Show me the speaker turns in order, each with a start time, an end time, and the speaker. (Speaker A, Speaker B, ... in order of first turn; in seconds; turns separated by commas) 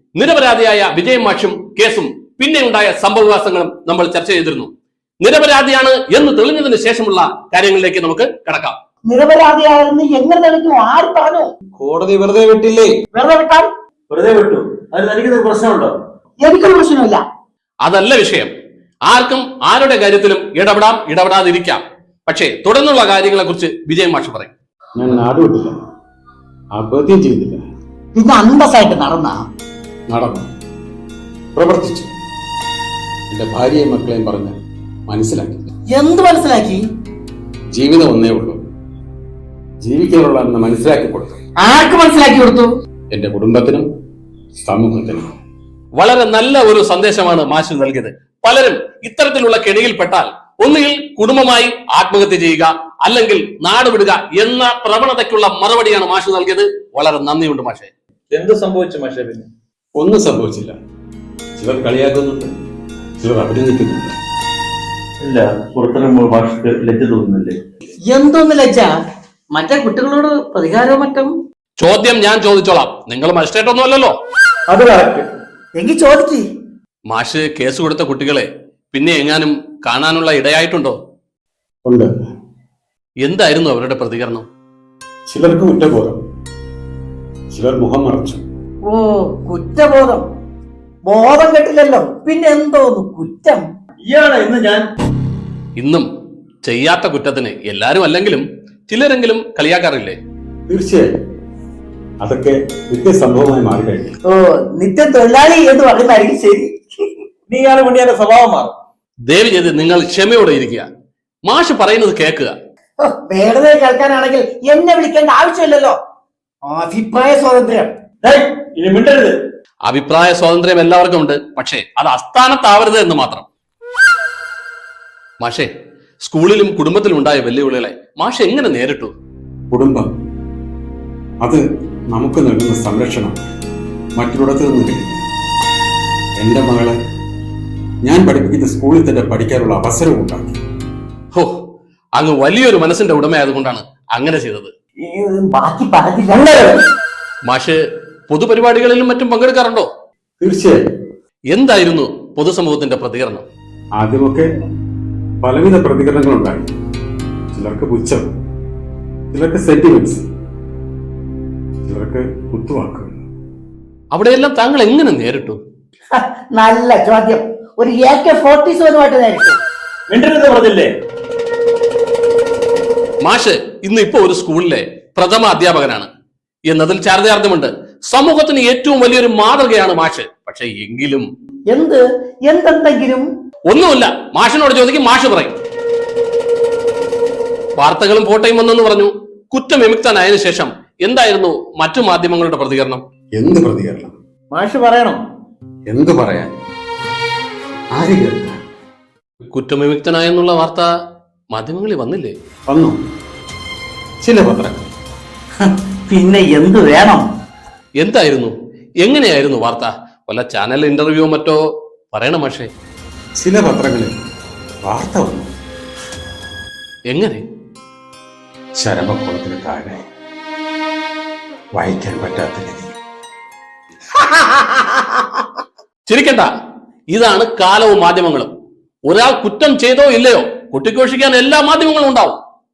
Speaker A: 0.1-4.7, Speaker A: 5.2-8.8, Speaker B: 9.1-11.5, Speaker C: 11.8-13.0, Speaker B: 13.1-13.7, Speaker C: 14.1-15.9, Speaker B: 16.4-17.2, Speaker A: 17.8-18.5, Speaker A: 19.1-24.5, Speaker D: 24.9-25.7, Speaker D: 26.7-27.6, Speaker B: 28.1-29.4, Speaker D: 30.1-30.5, Speaker D: 31.5-32.1, Speaker D: 33.3-34.5, Speaker D: 35.1-35.7, Speaker B: 35.9-36.8, Speaker D: 37.7-38.6, Speaker D: 39.8-41.4, Speaker B: 41.6-42.7, Speaker D: 43.1-43.9, Speaker D: 44.6-45.3, Speaker A: 46.0-57.9, Speaker C: 58.3-59.5, Speaker D: 60.0-60.7, Speaker D: 61.6-62.5, Speaker D: 63.2-64.1, Speaker C: 65.2-67.6, Speaker B: 68.1-68.9, Speaker B: 69.5-71.3, Speaker A: 71.8-74.1, Speaker B: 74.7-76.5, Speaker A: 77.1-81.0, Speaker D: 81.8-82.1, Speaker A: 83.2-84.4, Speaker D: 85.3-86.2, Speaker D: 87.5-88.4, Speaker B: 88.8-90.2, Speaker B: 91.0-93.6, Speaker C: 94.0-94.8, Speaker A: 95.8-96.1, Speaker A: 96.6-100.2, Speaker D: 100.7-101.1, Speaker D: 102.2-104.2, Speaker B: 104.3-106.7, Speaker C: 107.5-108.7, Speaker A: 109.3-110.9, Speaker A: 111.5-112.5, Speaker B: 113.0-116.0, Speaker B: 116.7-117.9, Speaker C: 118.2-119.4, Speaker A: 119.9-123.5, Speaker A: 125.4-125.7, Speaker A: 126.2-129.1, Speaker D: 129.7-130.1, Speaker D: 131.4-133.3, Speaker D: 134.2-135.2, Speaker D: 136.4-136.9, Speaker D: 138.0-140.6, Speaker A: 142.2-144.7, Speaker B: 145.0-146.8, Speaker A: 147.5-147.8, Speaker A: 148.3-149.9, Speaker D: 150.4-150.8, Speaker A: 151.5-153.4, Speaker D: 154.0-154.5, Speaker D: 155.4-156.7, Speaker D: 157.5-158.3, Speaker D: 159.3-160.2, Speaker D: 161.8-163.1, Speaker A: 164.1-165.6, Speaker B: 166.1-169.6, Speaker C: 170.1-170.9, Speaker A: 173.2-176.1, Speaker A: 176.7-181.3, Speaker B: 181.7-183.3, Speaker A: 183.7-185.5, Speaker A: 187.8-193.0, Speaker D: 193.4-194.1, Speaker C: 194.5-195.2, Speaker D: 195.9-196.5, Speaker D: 197.9-198.6, Speaker A: 199.5-200.8, Speaker A: 201.5-202.3, Speaker D: 202.7-203.0, Speaker D: 204.2-204.9, Speaker B: 205.6-207.2, Speaker A: 208.0-211.6, Speaker A: 212.1-212.7, Speaker D: 213.4-214.2, Speaker D: 214.8-215.5, Speaker A: 217.1-217.4, Speaker D: 218.8-220.0, Speaker D: 221.7-222.9, Speaker B: 224.4-224.8, Speaker A: 226.1-226.5, Speaker A: 227.1-228.5, Speaker A: 229.1-232.4